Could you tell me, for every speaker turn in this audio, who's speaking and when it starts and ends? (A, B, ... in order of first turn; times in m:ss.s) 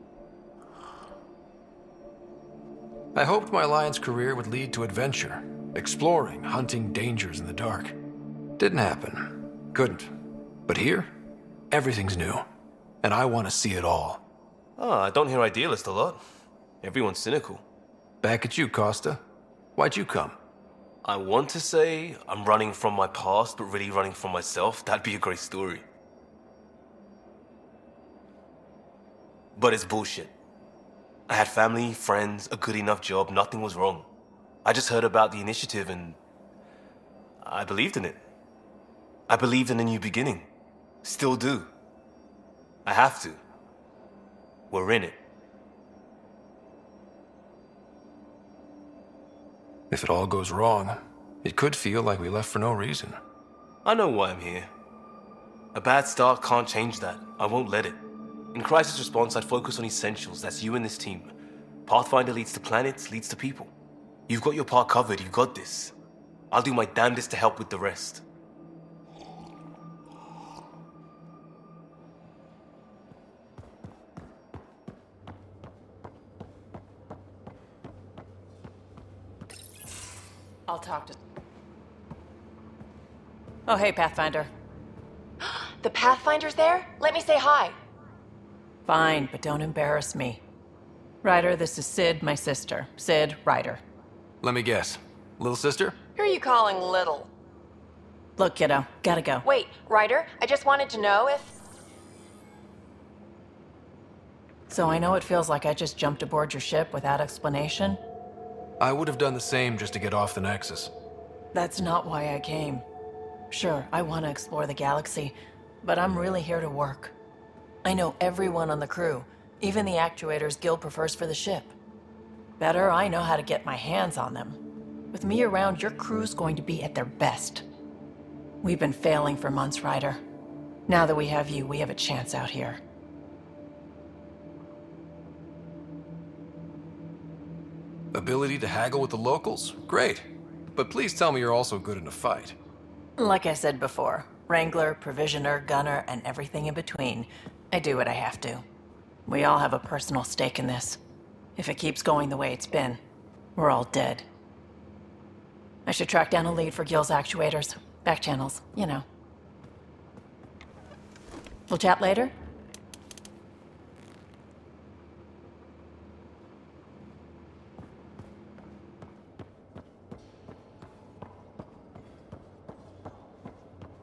0:03.1-0:08.0 A
0:08.6-0:10.1 A
0:10.7-0:11.1 A
0:11.7-0:12.4 A
0:13.0-0:14.2 A
0:14.8-0:16.2 B
0:16.8-0:17.6 B
0:18.2-0:19.2 A
0:19.8-0:20.4 A
0:21.0-0:25.8 B
0:29.6-0:30.3 B
0:31.3-0:34.1 B
0:34.6-0:36.2 B
0:37.4-0:38.2 B
0:39.3-0:40.5 B
0:41.0-0:41.7 B
0:42.9-0:43.4 B
0:44.7-0:45.2 B
0:49.9-0:53.2 A
0:53.8-0:54.7 B
0:55.8-0:58.0 B
0:58.5-1:01.3 B
1:01.9-1:03.7 B
1:04.3-1:05.9 B
1:06.5-1:08.2 B
1:20.7-1:21.2 C
1:23.7-1:24.5 C
1:25.4-1:27.8 D
1:28.9-1:30.4 C
1:31.2-1:33.8 C
1:34.4-1:36.0 A
1:36.2-1:37.3 D
1:38.4-1:39.4 C
1:39.4-1:41.6 D
1:44.7-1:48.0 C
1:48.8-1:50.9 A
1:51.5-1:52.8 C
1:53.5-1:57.1 C
1:57.8-2:01.7 C
2:02.6-2:04.6 C
2:05.1-2:07.6 C
2:08.6-2:10.2 C
2:10.9-2:12.8 C
2:18.1-2:22.6 A
2:23.2-2:28.6 C
2:29.3-2:31.0 C
2:31.6-2:33.0 C
2:33.6-2:34.3 C
2:35.9-2:39.0 C
2:41.7-2:42.3 C